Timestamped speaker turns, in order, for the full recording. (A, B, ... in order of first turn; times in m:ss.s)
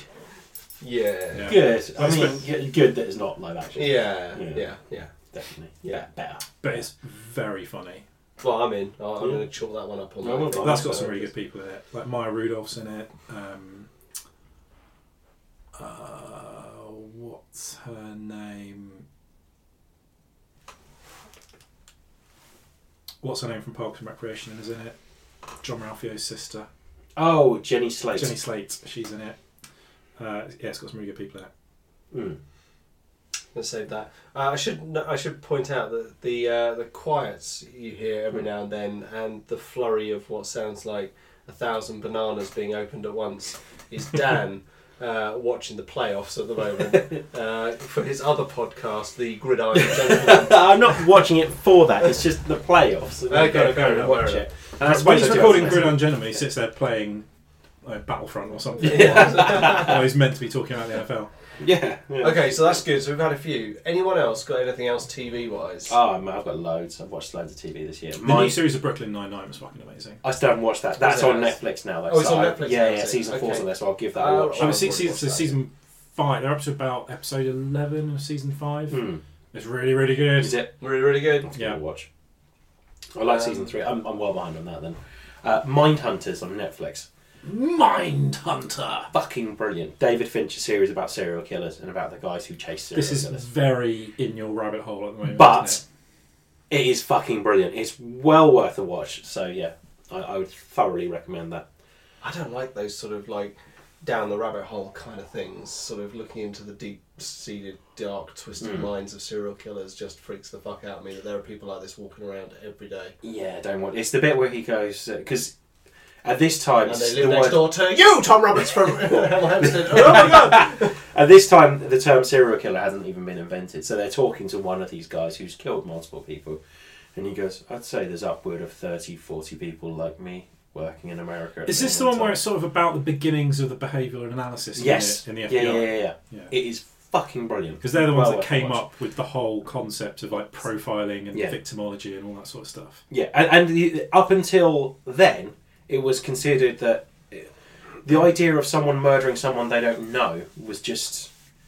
0:00.8-0:01.6 A
0:01.3-0:02.4 B
0:01.4-0:04.7 C
0:03.8-0:05.1 A
0:05.3-0:06.6 C
0:06.6-0:08.0 B
0:08.4-0:11.3 A
0:10.2-0:11.0 C
0:10.6-0:13.9 B
0:15.8-0:19.0 B
0:23.2-0:25.0 B
0:25.6-0:26.7 B
0:27.2-0:28.4 C
0:28.1-0:29.4 B
0:30.2-0:31.5 B
0:32.1-0:32.4 C
0:33.5-0:50.7 A
0:49.7-0:56.1 C
0:53.3-0:54.5 A
0:54.8-0:57.2 B
0:57.8-1:01.3 B
0:58.8-1:00.0 A
0:58.8-1:00.0 C
1:01.6-1:02.8 C
1:02.2-1:05.9 A
1:05.9-1:08.6 C
1:08.2-1:10.2 B
1:10.2-1:14.9 C
1:11.0-1:15.6 A
1:14.6-1:19.0 B
1:18.9-1:19.2 C
1:19.5-1:20.6 B
1:20.4-1:20.7 C
1:20.8-1:21.5 A
1:21.3-1:22.1 C
1:23.1-1:27.1 C
1:23.3-1:23.7 A
1:27.4-1:29.1 B
1:29.1-1:33.4 C
1:32.9-1:35.8 B
1:35.3-1:35.8 C
1:36.7-1:41.6 C
1:42.2-1:53.1 A
1:53.2-1:55.5 C
1:56.2-1:57.7 C
1:56.8-2:00.9 A
1:59.6-2:06.6 C
2:07.1-2:12.4 C
2:11.6-2:16.5 B
2:14.8-2:18.8 C
2:17.8-2:23.0 B
2:23.1-2:27.5 C
2:28.0-2:31.3 C